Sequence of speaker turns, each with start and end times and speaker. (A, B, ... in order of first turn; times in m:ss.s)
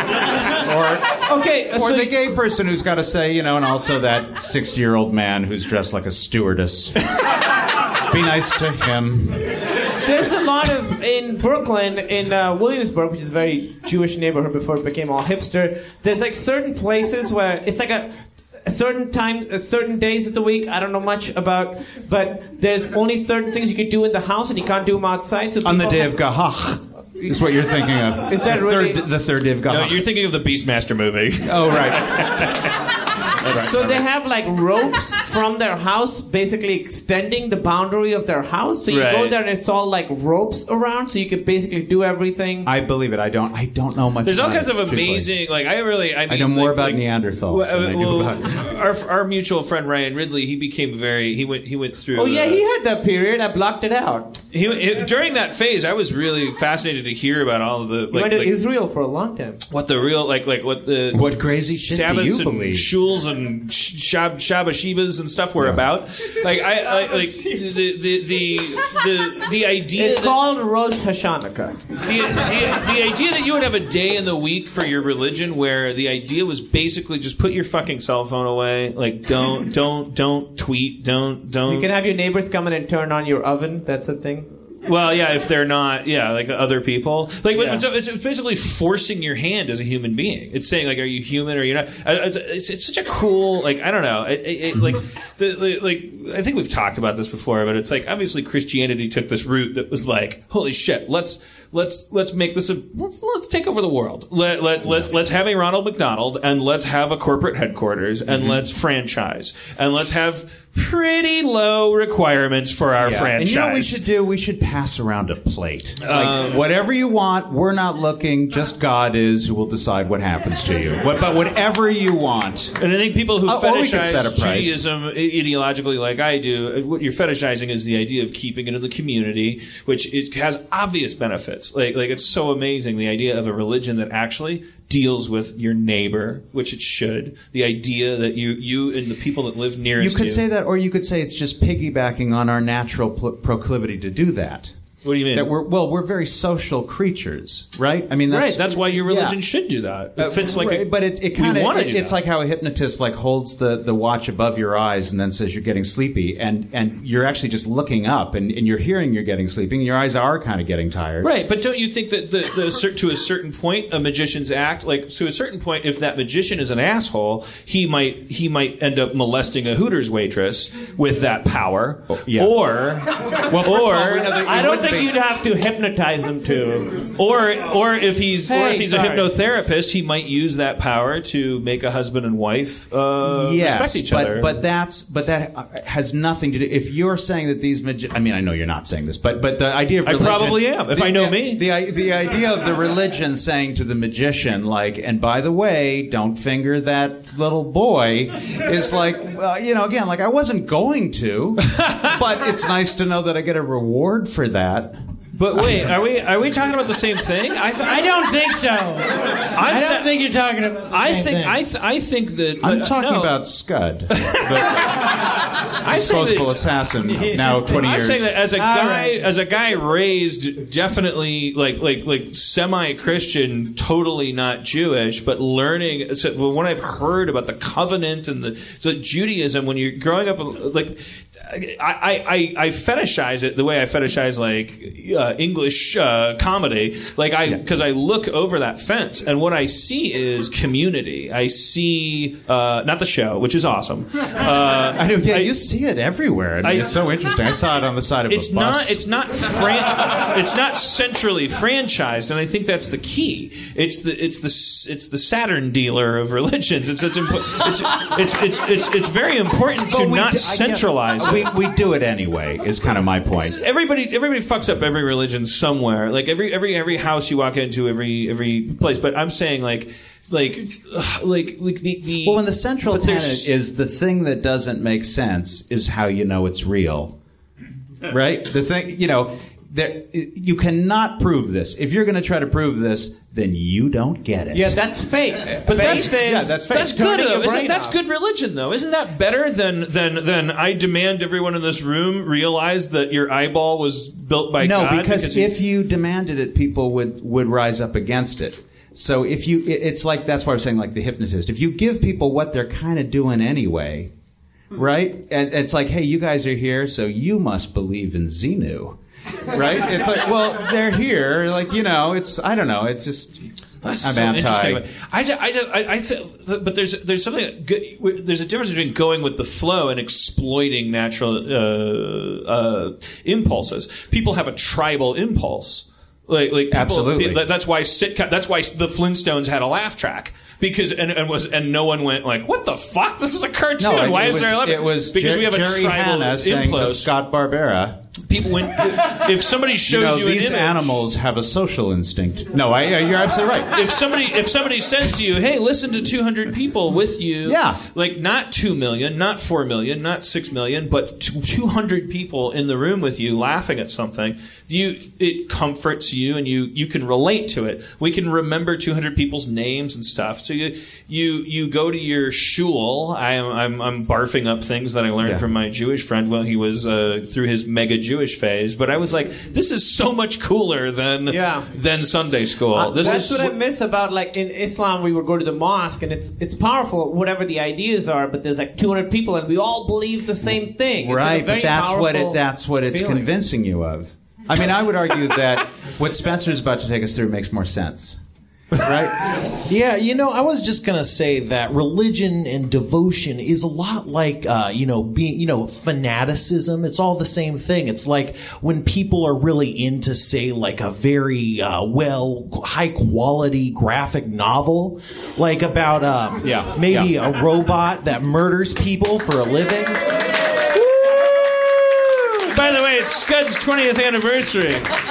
0:00.4-0:01.1 A
0:01.4-0:02.1 B
0:01.7-0:07.1 A
0:08.1-0:09.6 A
0:10.0-0:26.2 C
0:25.6-0:30.0 A
0:28.2-0:29.0 C
0:29.6-0:32.8 B
0:31.4-0:32.5 A
0:33.4-0:33.7 B
0:33.4-0:34.0 A
0:33.5-0:42.7 C
0:38.9-0:39.4 B
0:42.6-0:45.3 A
0:44.2-0:52.6 B
0:46.3-0:48.7 A
0:52.1-0:54.4 C
0:54.5-0:58.5 B
0:58.1-0:59.6 C
0:59.6-1:10.4 B
1:01.1-1:02.9 A
1:05.6-1:05.8 A
1:09.9-1:11.8 C
1:12.0-1:21.9 B
1:21.6-1:24.5 C
1:24.8-1:54.0 B
1:27.5-1:27.8 C
1:44.8-1:45.1 A
1:48.3-1:48.6 A
1:53.0-2:02.8 A
1:56.0-1:56.6 B
2:02.8-2:20.4 B
2:03.4-2:04.8 A
2:20.0-2:24.8 A
2:25.0-2:25.5 B
2:25.3-2:29.4 A
2:28.3-2:32.2 B
2:30.2-2:41.3 A
2:41.2-2:54.3 B
2:52.1-2:52.6 A
2:53.4-2:55.1 A
2:54.3-2:57.1 C
2:57.1-3:04.6 B
2:58.5-2:59.3 C
3:03.2-3:25.0 A
3:10.0-3:11.6 B
3:21.7-3:22.1 B
3:25.3-3:28.1 B
3:27.8-3:31.6 D
3:29.5-3:30.2 B
3:30.9-3:33.4 B
3:32.6-3:35.1 A
3:34.2-3:35.2 B
3:35.8-4:05.5 B
3:35.8-3:38.4 A
3:38.5-3:39.2 D
4:04.9-4:09.0 A
4:06.6-4:06.9 B
4:08.3-4:21.5 B
4:19.9-4:23.6 A
4:23.4-4:33.5 B
4:32.2-4:37.1 A
4:38.0-4:44.8 A
4:44.5-4:48.0 C
4:45.6-4:47.0 A
4:45.6-4:55.5 B
4:54.6-5:04.1 A
5:04.7-5:13.4 A
5:13.8-5:37.1 B
5:14.0-5:14.8 A
5:26.7-5:27.4 A
5:33.8-5:38.0 A
5:38.3-5:41.0 B
5:39.8-5:43.8 A
5:43.7-6:13.5 B
5:47.4-5:47.8 A
6:05.2-6:05.4 A
6:11.3-6:11.7 C
6:12.8-6:23.3 C
6:20.4-6:28.2 A
6:28.7-6:29.4 A
6:29.6-6:50.0 E
6:46.4-6:47.1 A
6:50.7-6:54.9 B